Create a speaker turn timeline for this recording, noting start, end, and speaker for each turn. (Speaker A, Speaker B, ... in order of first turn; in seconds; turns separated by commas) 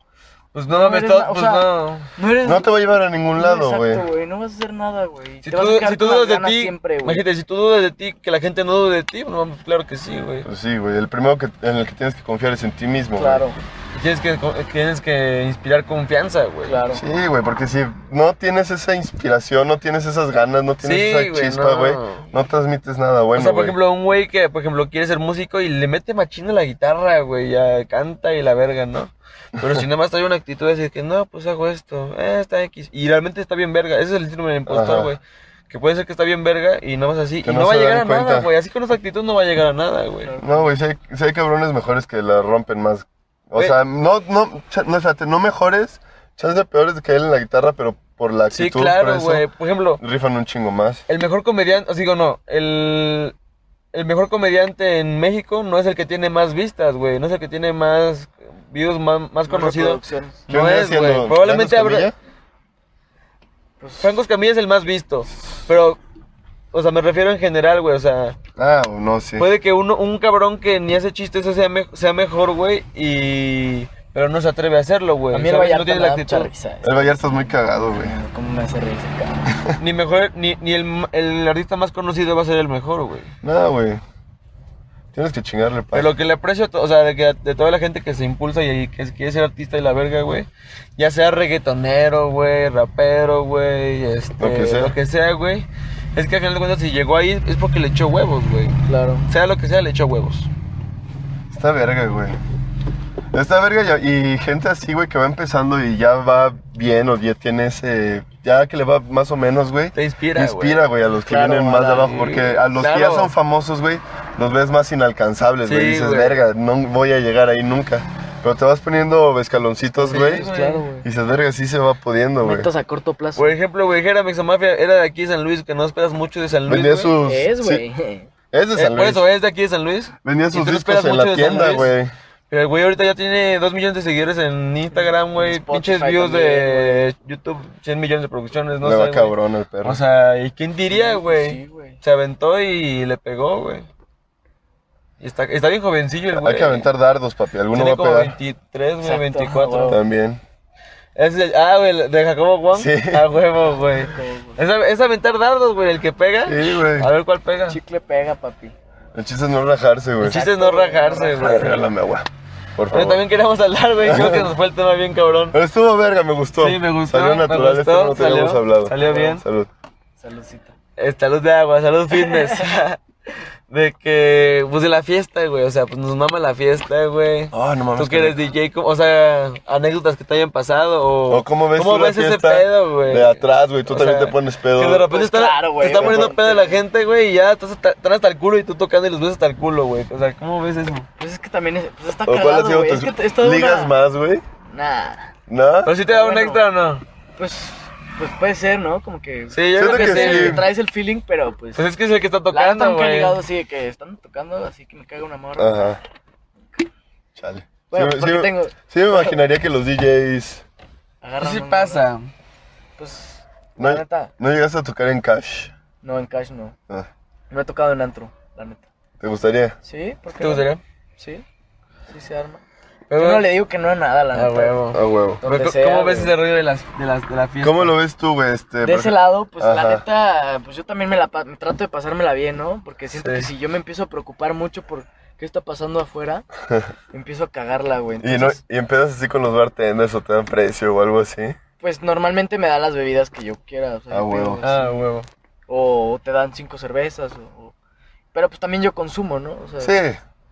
Speaker A: 0.5-2.1, Speaker B: 0.7-7.2, Speaker C: 2.4-4.0, Speaker A: 5.4-10.5, Speaker C: 10.4-13.5, Speaker B: 13.2-13.6, Speaker A: 13.9-16.8, Speaker B: 16.6-17.0, Speaker C: 16.9-23.8, Speaker A: 20.8-22.3, Speaker A: 23.3-40.3, Speaker C: 34.7-35.1, Speaker C: 37.4-38.5, Speaker B: 40.2-40.7, Speaker C: 40.4-49.5, Speaker A: 48.5-50.0, Speaker C: 50.0-51.0, Speaker A: 51.1-53.3, Speaker A: 53.9-62.1, Speaker B: 59.5-60.5, Speaker C: 60.5-62.1, Speaker B: 63.8-64.1, Speaker A: 64.0-66.0, Speaker A: 66.7-68.3, Speaker C: 68.6-69.5, Speaker A: 69.4-76.5, Speaker B: 75.3-79.5, Speaker C: 76.8-78.2, Speaker C: 79.5-79.8, Speaker A: 79.8-83.3, Speaker C: 83.4-84.0, Speaker C: 85.1-86.1, Speaker A: 85.9-98.8, Speaker C: 94.4-95.0, Speaker B: 98.8-99.3, Speaker A: 99.3-100.5, Speaker C: 101.5-102.4, Speaker C: 103.3-120.5, Speaker A: 109.9-110.8, Speaker B: 111.2-112.2, Speaker A: 111.9-113.3, Speaker A: 115.6-116.4, Speaker B: 120.0-121.0, Speaker A: 120.0-120.9, Speaker C: 121.0-122.7, Speaker B: 122.4-123.5, Speaker A: 123.3-127.1, Speaker C: 126.7-127.8, Speaker B: 127.2-128.3, Speaker C: 128.5-129.2, Speaker A: 128.7-131.9, Speaker C: 130.2-132.1, Speaker A: 132.5-143.9, Speaker B: 134.9-137.1, Speaker C: 138.8-140.0, Speaker B: 140.9-142.0, Speaker A: 145.2-146.9, Speaker C: 146.3-148.3, Speaker A: 147.7-150.0, Speaker B: 149.0-150.0, Speaker C: 149.9-150.4, Speaker A: 151.2-157.8, Speaker C: 152.7-153.2, Speaker B: 153.8-154.6, Speaker C: 156.4-157.1, Speaker B: 157.7-158.7, Speaker C: 159.1-160.4, Speaker A: 160.2-161.9, Speaker B: 160.2-161.9, Speaker C: 161.4-163.2, Speaker A: 162.9-165.6, Speaker C: 164.0-164.5, Speaker C: 165.5-169.7, Speaker A: 166.6-169.4, Speaker B: 169.0-169.4, Speaker B: 170.2-170.7, Speaker A: 171.0-173.0, Speaker B: 172.2-172.6, Speaker A: 173.7-191.1, Speaker C: 177.5-178.4, Speaker C: 181.3-185.1, Speaker B: 185.1-186.8, Speaker C: 185.8-186.3, Speaker B: 191.2-193.9, Speaker C: 192.2-194.4, Speaker B: 194.7-195.3, Speaker C: 195.5-195.9, Speaker A: 195.8-197.0, Speaker B: 196.0-196.6, Speaker B: 197.4-201.8, Speaker A: 199.5-200.6, Speaker C: 199.8-200.7, Speaker A: 201.7-203.4, Speaker B: 202.5-205.9, Speaker C: 205.6-206.0, Speaker C: 207.3-210.6, Speaker B: 207.9-209.4, Speaker B: 211.2-212.1, Speaker A: 211.4-212.3, Speaker B: 213.0-214.3, Speaker C: 213.8-215.7, Speaker B: 216.0-216.7, Speaker B: 217.5-218.8, Speaker C: 219.2-219.8, Speaker B: 219.8-221.4, Speaker A: 220.4-220.8, Speaker B: 222.1-222.6, Speaker A: 223.1-223.5, Speaker B: 223.1-224.9, Speaker A: 224.3-227.9, Speaker C: 224.9-225.4, Speaker B: 225.4-226.3, Speaker C: 227.6-230.0, Speaker B: 228.8-236.4, Speaker A: 233.2-233.5, Speaker B: 237.1-238.6, Speaker C: 238.2-241.6, Speaker B: 241.8-245.1, Speaker C: 244.1-244.6, Speaker A: 244.6-245.3, Speaker B: 245.7-247.7, Speaker B: 248.3-249.9, Speaker C: 249.8-250.2